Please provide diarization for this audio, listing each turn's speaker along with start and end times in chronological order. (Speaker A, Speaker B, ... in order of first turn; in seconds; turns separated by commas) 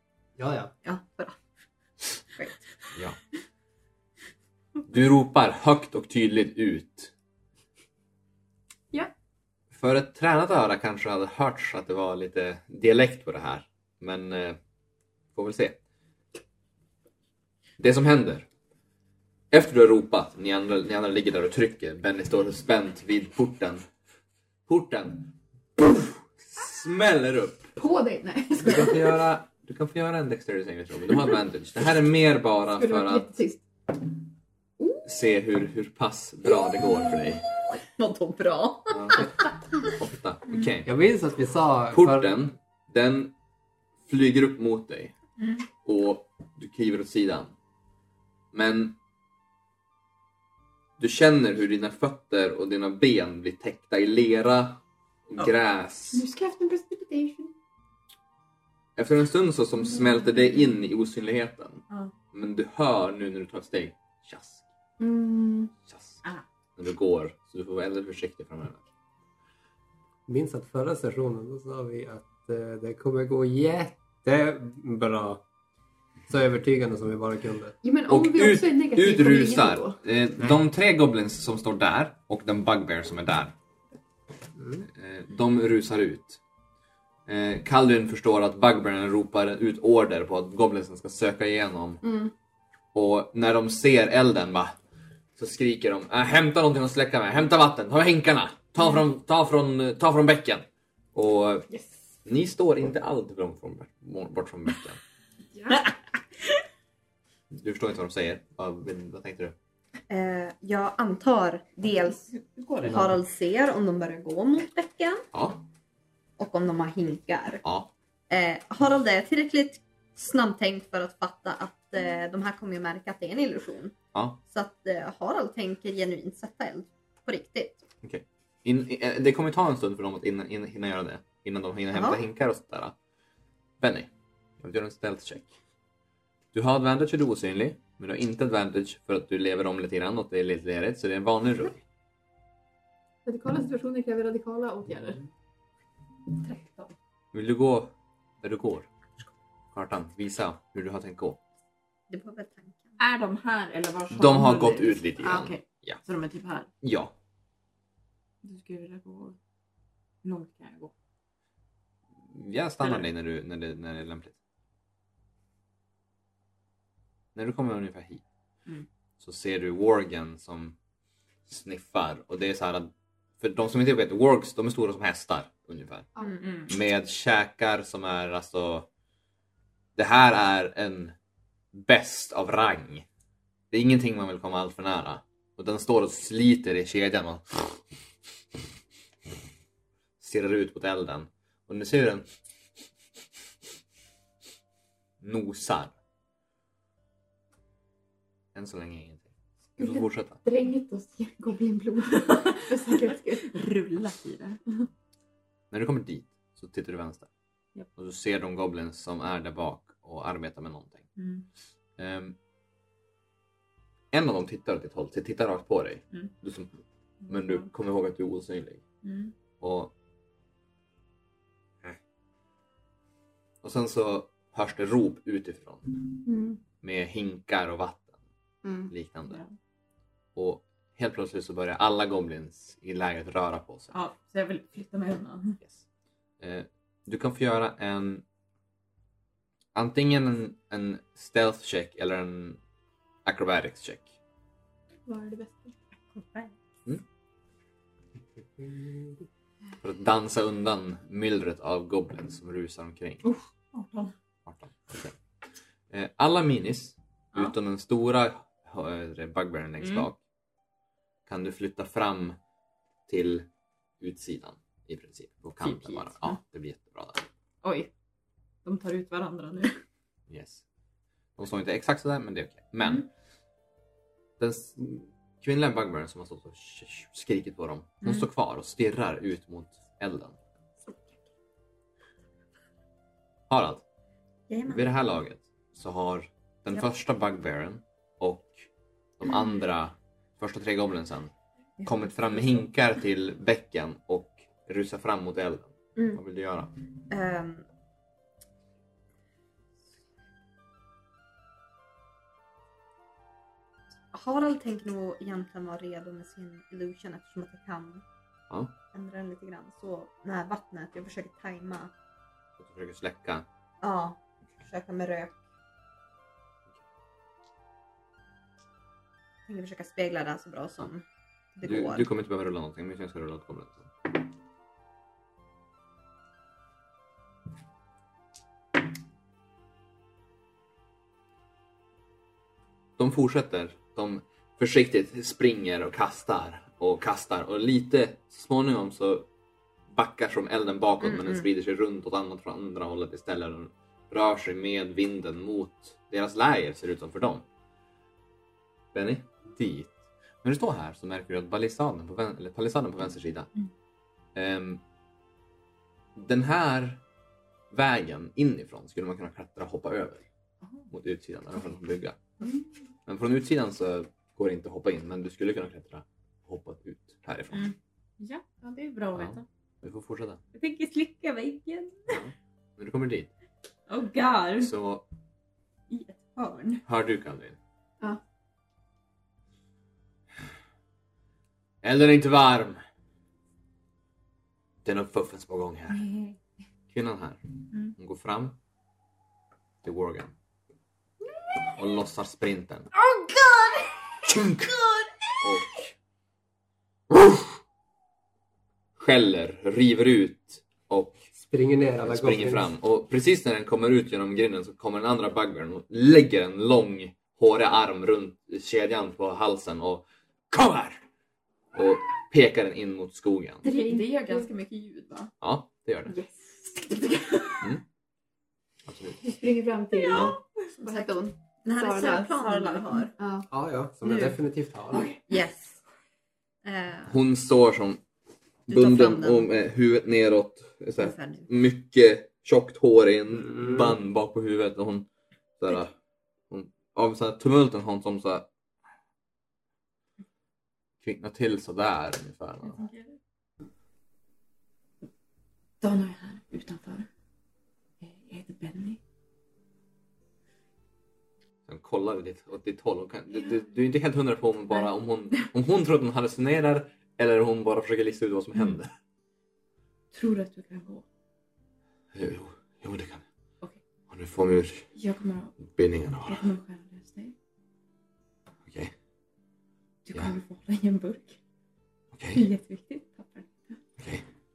Speaker A: 0.4-0.7, Speaker B: 0.8-1.4, Speaker C: 4.9-7.1, Speaker C: 9.7-14.6, Speaker C: 15.3-15.8, Speaker C: 17.8-18.4, Speaker C: 19.5-23.8, Speaker C: 24.7-27.7, Speaker D: 27.8-29.2, Speaker C: 28.6-33.3, Speaker D: 32.8-33.6, Speaker D: 34.8-35.0, Speaker C: 35.0-37.4, Speaker B: 38.0-39.2, Speaker C: 38.9-40.9, Speaker A: 40.8-42.4, Speaker C: 41.9-43.3, Speaker C: 44.1-45.1, Speaker C: 45.8-47.5, Speaker C: 48.5-49.0, Speaker C: 51.0-56.2, Speaker D: 56.1-57.5, Speaker C: 59.0-64.6, Speaker D: 65.0-65.7, Speaker C: 65.9-66.2, Speaker C: 66.8-68.8, Speaker A: 70.3-75.4, Speaker A: 76.3-77.8, Speaker D: 77.8-80.0, Speaker C: 78.1-83.5, Speaker A: 84.6-84.9, Speaker C: 84.9-86.4, Speaker C: 87.3-92.0, Speaker D: 92.0-92.3, Speaker C: 92.9-94.8, Speaker C: 95.4-101.7, Speaker D: 101.7-102.0, Speaker C: 102.2-105.0, Speaker C: 107.5-109.5, Speaker B: 110.1-112.3, Speaker E: 112.3-113.0, Speaker A: 112.8-113.1, Speaker B: 112.8-115.2, Speaker C: 115.3-115.6, Speaker B: 116.4-117.6, Speaker C: 117.6-117.9, Speaker B: 118.3-127.8, Speaker C: 124.1-124.4, Speaker C: 128.0-132.9, Speaker B: 131.9-132.2, Speaker C: 133.8-135.5, Speaker C: 136.5-141.8, Speaker D: 143.2-145.2, Speaker E: 146.4-146.9, Speaker C: 147.3-148.9, Speaker C: 149.7-151.4, Speaker B: 152.1-152.8, Speaker E: 153.0-156.7, Speaker C: 154.1-156.0, Speaker C: 156.8-157.1, Speaker E: 158.4-159.4, Speaker E: 160.2-160.9, Speaker C: 162.3-164.3, Speaker E: 162.8-163.1, Speaker C: 167.3-168.2, Speaker C: 169.2-170.7, Speaker C: 171.5-176.1, Speaker E: 176.2-176.7, Speaker C: 176.7-178.9, Speaker C: 179.9-181.1, Speaker C: 181.7-183.0, Speaker C: 183.7-187.8, Speaker C: 190.2-192.3, Speaker C: 195.2-195.9, Speaker C: 198.5-200.4, Speaker D: 199.8-203.5, Speaker E: 202.3-204.6, Speaker C: 205.7-207.3, Speaker C: 208.0-211.1, Speaker E: 211.2-211.5, Speaker C: 212.0-212.3, Speaker C: 214.1-216.7, Speaker E: 217.2-217.7, Speaker C: 217.3-218.8, Speaker E: 219.0-219.3, Speaker C: 219.6-219.9, Speaker C: 223.6-226.1, Speaker D: 226.2-226.6, Speaker C: 226.8-228.1, Speaker D: 228.6-228.9, Speaker C: 228.9-229.4, Speaker E: 229.3-229.5, Speaker C: 230.3-233.9, Speaker E: 233.9-235.6, Speaker C: 236.4-238.2, Speaker C: 239.7-242.6, Speaker C: 243.2-244.1, Speaker D: 245.1-245.8, Speaker E: 246.1-246.5, Speaker A: 248.3-249.3, Speaker C: 249.8-253.2, Speaker E: 253.2-254.1, Speaker C: 254.4-255.2, Speaker C: 255.9-260.2, Speaker E: 259.8-260.1, Speaker C: 261.3-262.4, Speaker C: 263.1-263.4, Speaker C: 264.0-267.2, Speaker E: 265.6-266.4, Speaker E: 267.6-267.9, Speaker E: 268.6-269.8, Speaker C: 270.3-270.6, Speaker C: 271.4-273.1, Speaker C: 274.4-280.4, Speaker C: 283.5-283.8, Speaker B: 284.5-284.9, Speaker C: 284.7-288.6, Speaker C: 289.2-291.3, Speaker E: 291.8-292.6, Speaker C: 291.8-296.7, Speaker B: 297.1-297.6, Speaker B: 304.1-308.0, Speaker B: 308.9-311.9, Speaker C: 312.6-313.4, Speaker B: 313.8-315.4, Speaker B: 319.5-321.0, Speaker B: 321.6-322.1, Speaker C: 321.6-324.1, Speaker C: 333.0-339.3, Speaker C: 339.9-347.4, Speaker B: 341.0-341.4, Speaker C: 348.9-353.5, Speaker C: 354.3-354.8, Speaker C: 356.1-357.0, Speaker C: 357.7-360.2, Speaker E: 360.6-360.9, Speaker C: 360.9-362.2, Speaker C: 363.1-367.7, Speaker E: 367.5-369.4, Speaker C: 369.1-370.4, Speaker E: 370.5-372.2, Speaker C: 372.1-373.3, Speaker E: 373.9-374.7, Speaker C: 374.6-375.0, Speaker E: 375.9-376.8, Speaker C: 376.9-377.6, Speaker C: 381.8-382.8, Speaker C: 384.8-386.1, Speaker E: 385.9-386.4, Speaker C: 386.9-388.6, Speaker C: 389.8-390.3, Speaker C: 391.7-392.9, Speaker C: 394.3-394.7, Speaker C: 395.4-395.9, Speaker C: 397.1-397.5, Speaker C: 399.0-401.2, Speaker A: 401.3-402.7, Speaker C: 402.0-411.0, Speaker C: 411.7-413.6, Speaker D: 413.6-414.5, Speaker E: 413.6-415.3, Speaker C: 415.4-416.2, Speaker D: 416.1-417.4, Speaker E: 417.1-417.6, Speaker C: 418.9-419.3, Speaker D: 419.2-422.3, Speaker E: 419.9-420.4, Speaker C: 420.1-420.4, Speaker B: 420.8-423.1, Speaker E: 422.0-423.1, Speaker D: 423.2-423.5, Speaker A: 423.5-425.1, Speaker E: 424.9-425.2, Speaker B: 425.3-425.8, Speaker B: 426.6-427.1, Speaker C: 427.1-428.0, Speaker C: 428.7-435.1, Speaker B: 428.7-429.5, Speaker B: 431.0-431.5, Speaker A: 433.5-434.0, Speaker C: 435.6-435.9, Speaker C: 436.5-438.5, Speaker C: 441.0-442.8, Speaker E: 442.6-443.2, Speaker E: 445.8-447.1, Speaker E: 448.0-449.0, Speaker C: 451.7-458.9, Speaker E: 453.3-453.6, Speaker E: 454.7-455.4, Speaker E: 460.1-461.0, Speaker C: 462.1-463.2, Speaker C: 464.1-464.9, Speaker E: 464.9-465.7, Speaker C: 465.6-466.5, Speaker E: 466.2-467.3, Speaker C: 468.7-468.9, Speaker E: 470.1-471.4, Speaker C: 472.1-472.4, Speaker E: 472.3-473.8, Speaker C: 474.0-474.2